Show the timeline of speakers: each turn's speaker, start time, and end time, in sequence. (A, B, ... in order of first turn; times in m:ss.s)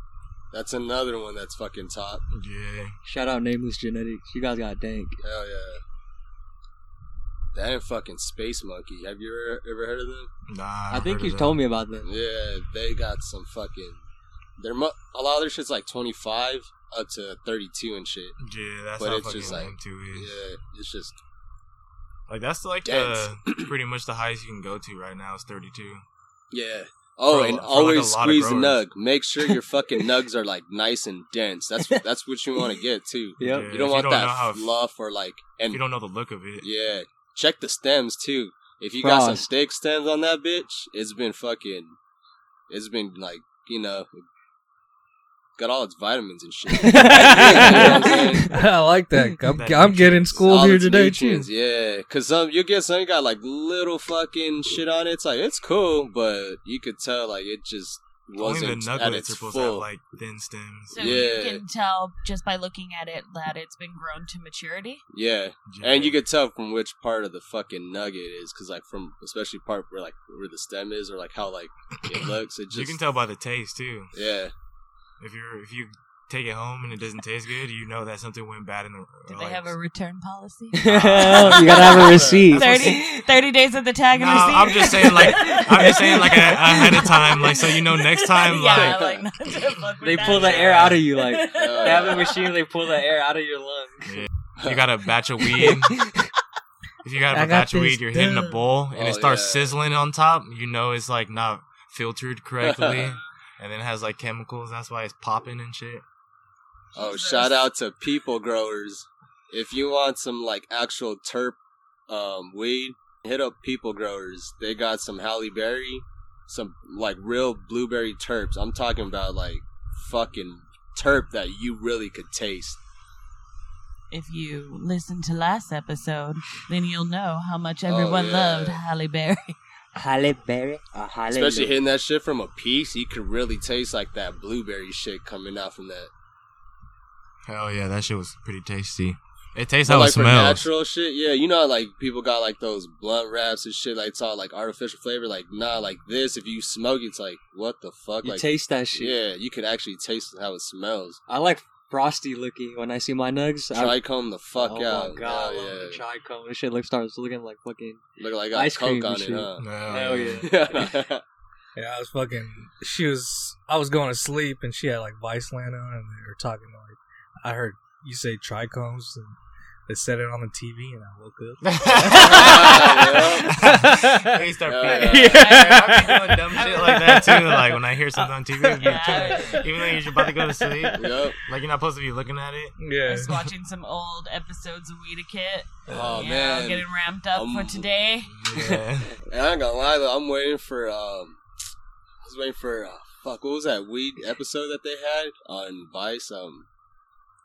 0:00.5-0:02.2 A
0:02.3-0:03.0 B
0:03.0-0:05.2 C
0:05.2-0:05.8 A
0:07.5-0:10.3 A
0:10.5-0:11.6 B
0:10.9-0:12.1 C
0:12.0-0:14.0 A
0:14.6-0:18.4 A
0:18.4-0:20.3 B
0:19.0-0:21.2 A
0:22.3-0:26.0 B
0:22.8-0:23.7 A
0:26.5-0:35.8 A
0:27.3-0:28.8 B
0:33.4-0:33.8 C
0:33.4-0:34.8 B
0:35.7-0:36.7 B
0:36.6-0:42.0 A
0:39.0-0:39.5 C
0:42.7-0:44.1 A
0:45.6-0:48.5 A
0:46.8-0:48.5 C
0:47.0-0:51.5 D
0:49.5-0:50.5 B
0:50.5-0:59.8 A
0:58.4-1:01.3 B
1:00.9-1:05.0 E
1:01.0-1:01.6 A
1:05.1-1:13.0 A
1:05.7-1:06.2 B
1:12.1-1:14.2 B
1:14.1-1:14.5 A
1:15.2-1:19.7 B
1:19.3-1:32.6 E
1:20.7-1:23.3 C
1:20.8-1:22.1 B
1:21.9-1:22.6 A
1:24.1-1:29.0 B
1:25.0-1:26.3 C
1:28.7-1:29.2 A
1:30.0-1:34.2 C
1:30.3-1:31.0 B
1:31.5-1:32.3 A
1:34.1-1:36.0 B
1:35.6-1:36.3 C
1:37.0-1:46.0 B
1:37.3-1:38.6 D
1:39.0-1:39.7 A
1:42.6-1:43.2 A
1:47.0-2:02.8 A
1:47.0-1:47.6 E
2:04.1-2:09.6 E
2:07.9-2:08.8 A
2:09.9-2:11.7 C
2:11.3-2:16.1 A
2:17.5-2:20.7 B
2:19.9-2:31.2 A
2:28.2-2:29.2 C
2:31.3-2:34.0 C
2:33.7-2:36.0 A
2:34.6-2:40.9 C
2:38.2-2:41.2 A
2:39.6-2:40.5 B
2:41.8-3:01.0 D
2:51.6-3:02.8 B
2:52.1-2:53.5 A
2:54.7-2:55.4 A
2:55.3-2:56.0 E
2:56.6-2:56.9 E
2:58.8-2:59.6 E
3:01.0-3:01.4 A
3:02.8-3:03.3 D
3:03.0-3:08.3 E
3:05.9-3:06.2 D
3:05.9-3:07.9 A
3:08.3-3:09.1 B
3:08.5-3:08.8 C
3:09.3-3:11.4 A
3:12.2-3:16.7 A